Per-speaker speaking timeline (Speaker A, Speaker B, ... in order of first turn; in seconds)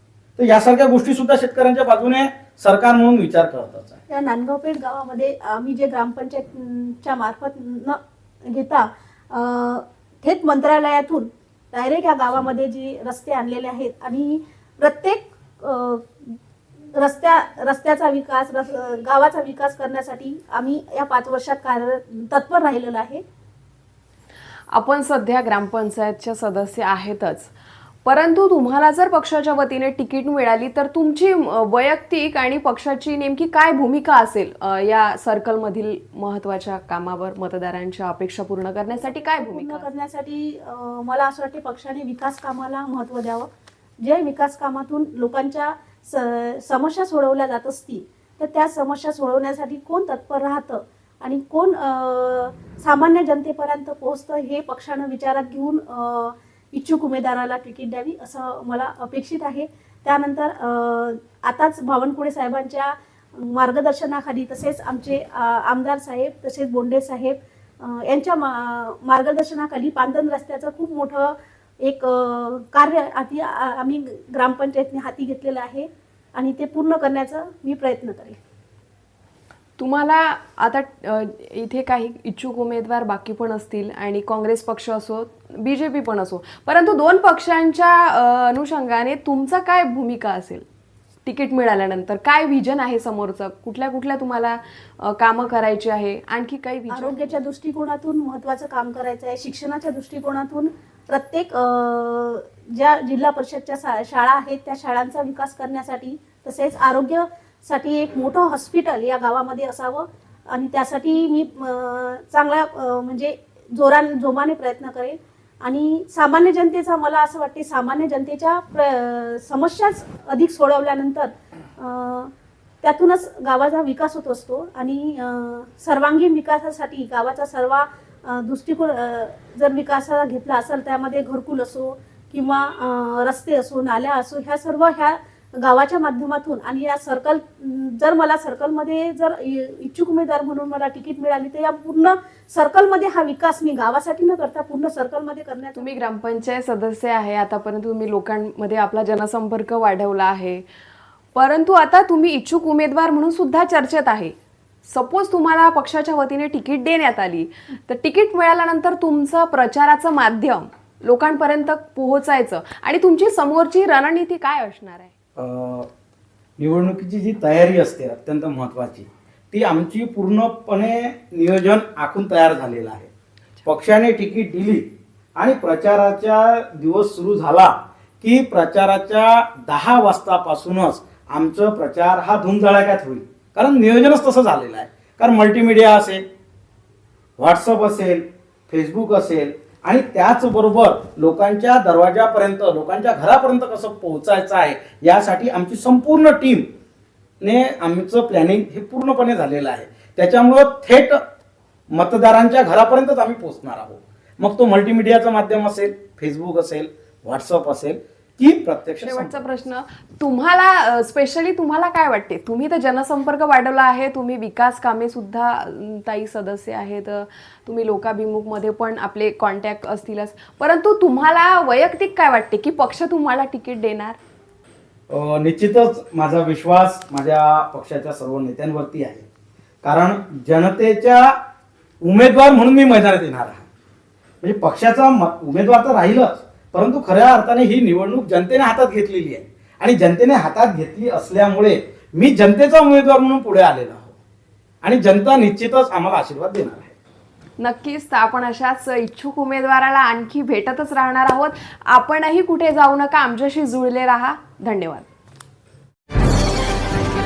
Speaker A: 0.4-4.0, 165.4-165.9, 166.6-173.1, 173.6-186.2, 187.4-196.7, 197.4-201.2, 201.9-209.4, 225.1-229.2, 229.8-231.3, 232.0-233.6, 234.4-244.1, 244.8-246.9
Speaker B: 4.1-16.4, 17.0-23.2, 39.0-43.5, 44.0-78.4, 96.9-122.3, 122.8-146.0
Speaker C: 24.7-27.5, 28.0-39.9, 79.8-90.6, 91.2-97.4, 145.7-150.6, 151.3-165.1, 209.0-224.2, 247.6-255.1